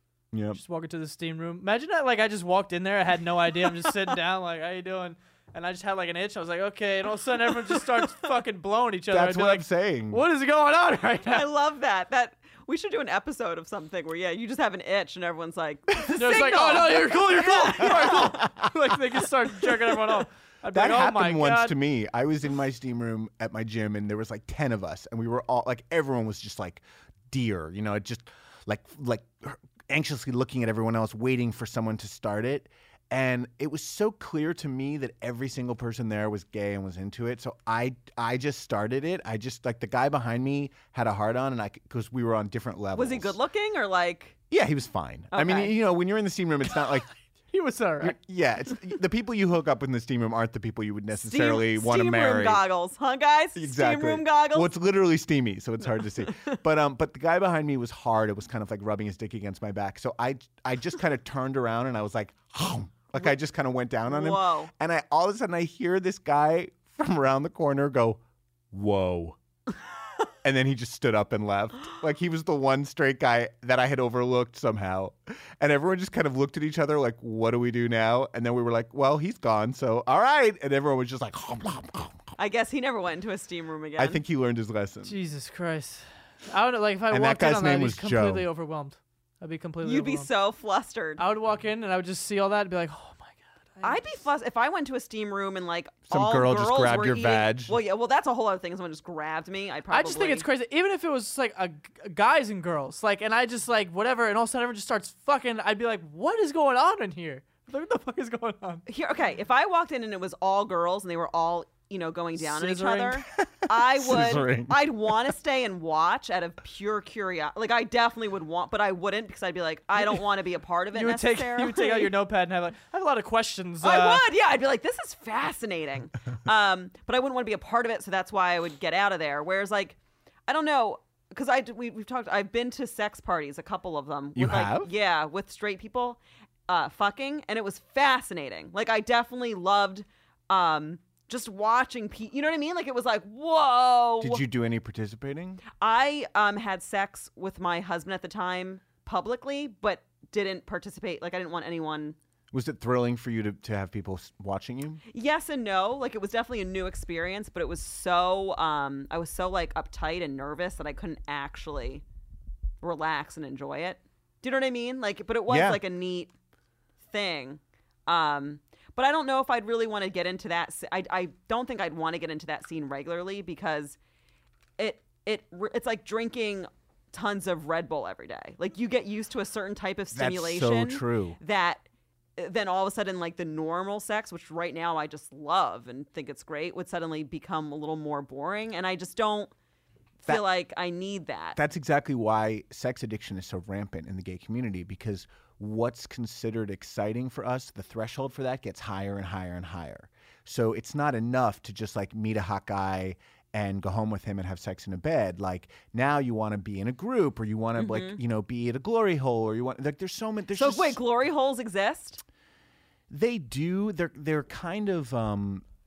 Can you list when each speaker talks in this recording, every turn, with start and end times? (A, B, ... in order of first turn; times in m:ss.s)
0:00.3-0:00.6 A
0:00.5-0:11.5 B
0:09.1-0:10.2 A
0:11.2-0:18.4 C
0:16.1-0:21.8 B
0:17.8-0:18.7 A
0:20.7-0:43.4 A
0:42.9-0:44.4 C
0:44.5-0:47.1 A
0:45.3-0:45.7 C
0:47.5-0:48.2 B
0:48.0-0:52.6 A
0:51.1-0:54.7 C
0:53.6-1:08.2 A
1:04.1-1:04.7 C
1:08.7-1:09.4 A
1:10.4-1:22.3 A
1:22.4-1:24.2 C
1:24.0-1:25.2 A
1:25.0-1:30.3 B
1:27.1-1:28.5 A
1:29.8-1:31.2 C
1:31.2-1:34.0 B
1:33.8-1:40.4 C
1:36.1-1:37.8 A
1:39.9-1:48.8 B
1:48.9-2:02.1 C
1:52.4-1:53.2 B
1:53.6-1:54.8 A
2:00.9-2:04.2 B
2:03.8-2:24.4 C
2:14.3-2:14.9 A
2:24.2-2:25.6 A
2:25.7-2:32.2 C
2:32.5-2:35.0 A
2:35.1-2:42.0 C
2:42.8-2:46.3 C
2:45.5-2:45.8 A
2:47.1-2:54.0 C
2:54.8-3:01.8 C
3:00.1-3:01.4 A
3:02.4-3:09.5 C
3:10.2-3:11.6 C
3:11.6-3:31.0 A
3:27.8-3:28.2 C
3:30.5-3:32.2 C
3:33.1-3:35.6 A